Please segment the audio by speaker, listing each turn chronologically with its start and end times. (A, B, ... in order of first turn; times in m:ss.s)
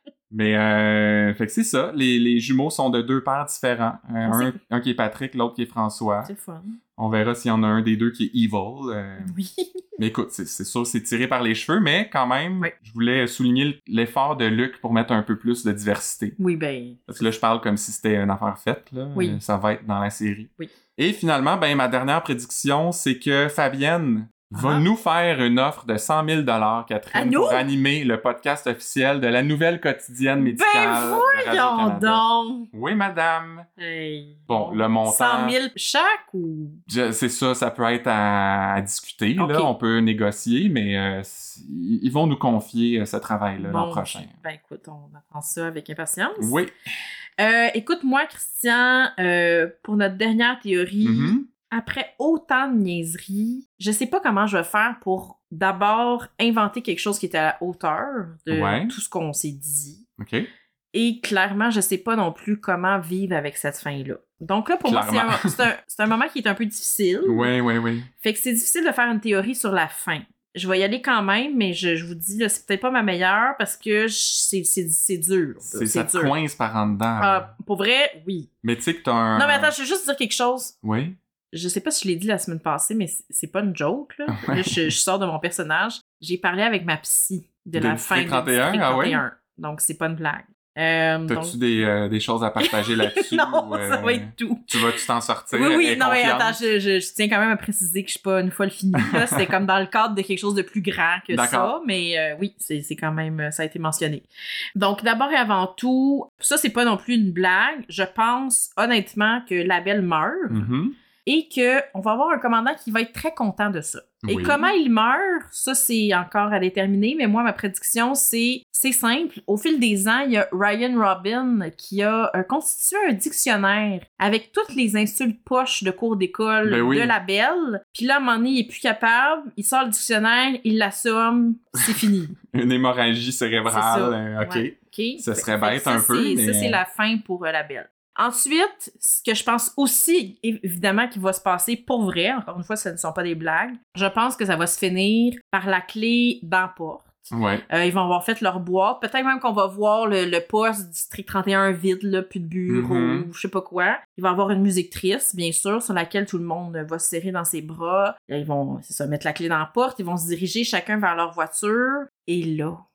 0:00.3-0:06.3 A
0:04.3-0:04.6 B
0:06.2-0:06.8 B
0:07.0-0:09.3 A
0:09.2-0:09.7 B
0:10.0-0:16.4 A
0:16.4-0:17.2 B
0:17.1-0:33.7 A
0:19.2-0:19.4 B
0:24.5-0:24.8 B
0:27.1-0:27.6 B
0:30.4-0:32.7 B
0:33.8-0:36.8 B
0:34.5-0:35.6 A
0:36.9-0:44.3 A
0:39.4-0:39.7 B
0:43.6-0:46.6 B
0:46.4-0:46.7 A
0:47.4-1:00.1 B
0:51.0-0:51.5 A
0:58.5-0:58.9 A
1:00.2-1:00.5 A
1:00.9-1:07.5 B
1:04.8-1:05.7 A
1:07.3-1:08.1 A
1:08.2-1:16.3 B
1:15.7-1:17.5 A
1:17.2-1:18.5 B
1:18.6-1:19.7 A
1:19.4-1:20.8 B
1:20.8-1:21.2 A
1:21.5-1:31.6 B
1:24.3-1:24.9 A
1:27.8-1:29.2 A
1:31.3-1:36.6 A
1:32.6-1:35.0 B
1:35.5-1:50.7 B
1:39.0-1:39.5 A
1:41.3-1:41.7 A
1:50.5-1:51.0 A
1:51.3-2:12.4 B
1:54.2-1:54.7 A
2:06.7-2:07.2 A
2:11.8-2:16.8 A
2:13.7-2:42.8 B
2:27.3-2:27.6 A
2:32.7-2:33.3 A